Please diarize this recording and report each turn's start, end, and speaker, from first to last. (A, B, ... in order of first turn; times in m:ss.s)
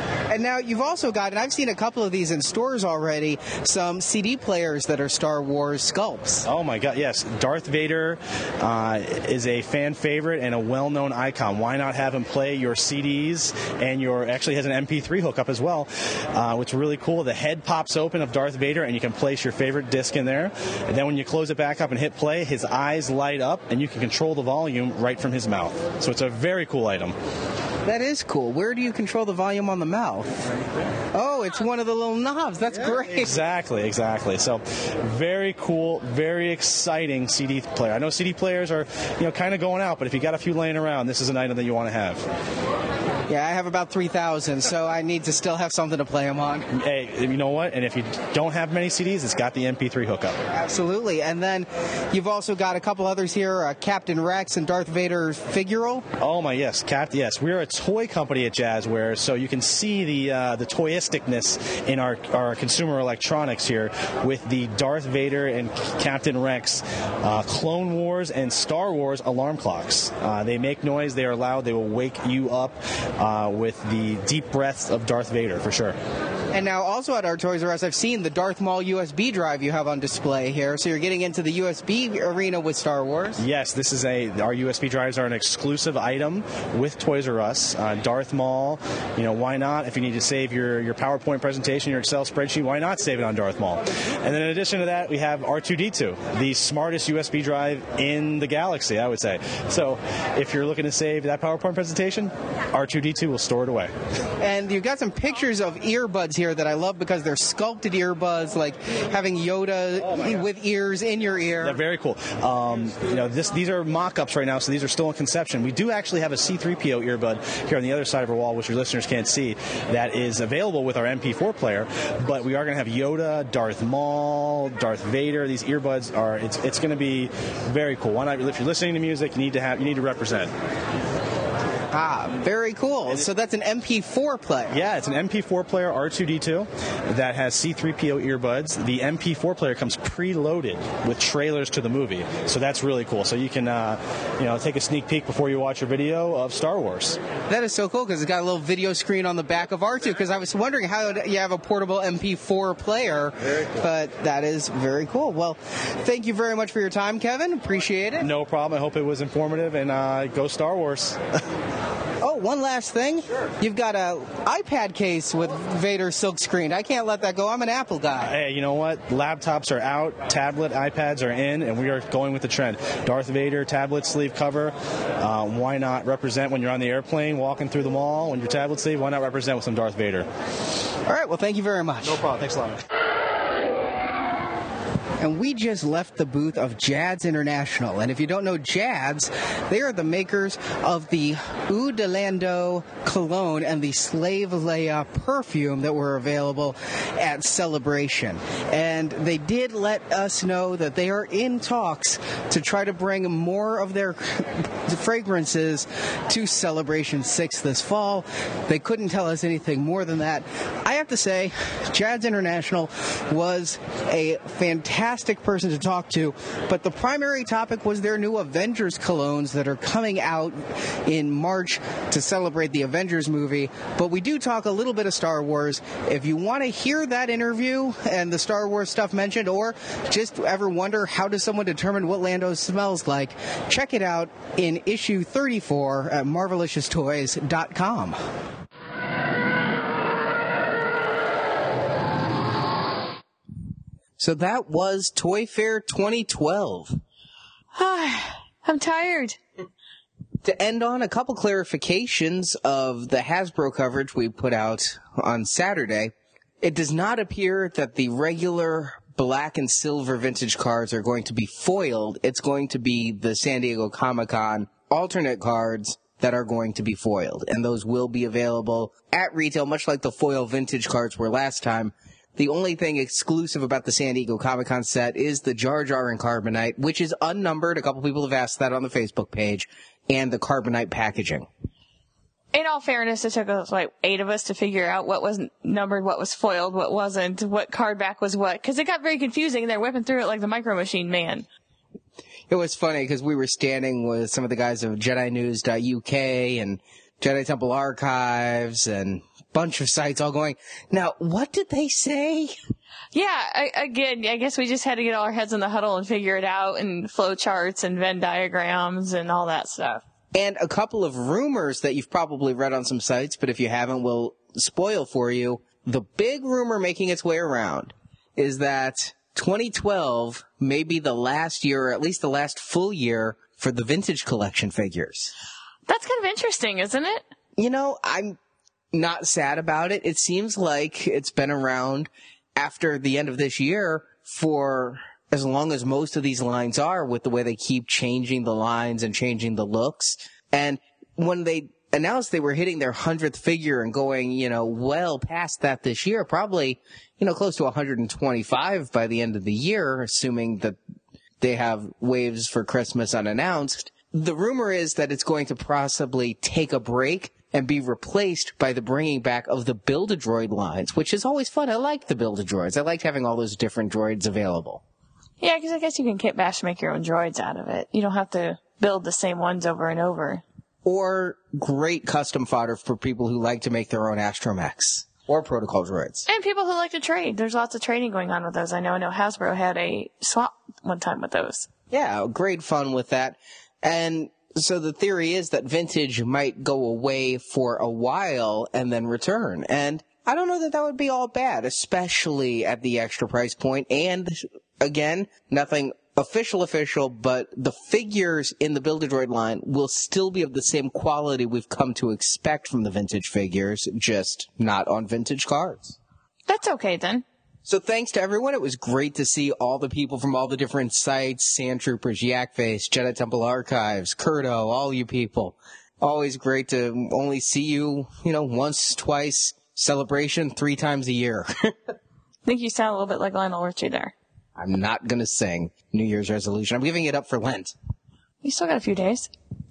0:00.3-0:06.5 A
0:06.4-0:27.2 B
0:27.8-0:30.3 A
0:31.1-0:33.4 A
0:33.2-0:42.2 B
0:43.3-0:46.7 A
0:46.7-0:50.4 B
0:50.5-0:56.1 A
0:56.2-1:16.0 B
1:16.5-1:23.4 A
1:23.4-1:43.9 B
1:44.4-1:51.8 A
1:51.6-2:10.5 B
2:11.9-2:14.8 A
2:14.7-2:27.2 B
2:27.5-2:38.3 A
2:38.2-2:41.2 B
2:42.2-2:48.4 A
2:48.2-3:00.3 B
3:01.1-3:02.3 A
3:02.1-3:02.8 B
3:05.2-3:58.2 A
4:04.2-4:07.0 A
4:07.7-4:09.4 C
4:10.4-4:41.5 A
4:42.5-4:51.5 C
4:52.5-5:02.6 A
5:03.1-5:10.0 C
5:10.3-5:25.3 A
5:25.9-5:27.3 C
5:27.6-5:28.4 A
5:28.9-5:50.8 A
5:51.4-6:04.8 A
6:05.4-6:10.4 C
6:10.8-6:16.2 A
6:16.3-6:21.7 C
6:21.9-6:46.0 A
6:46.5-6:47.2 C
6:47.6-7:01.7 A
7:02.4-7:04.2 C
7:04.6-7:07.8 A
7:08.4-7:09.3 C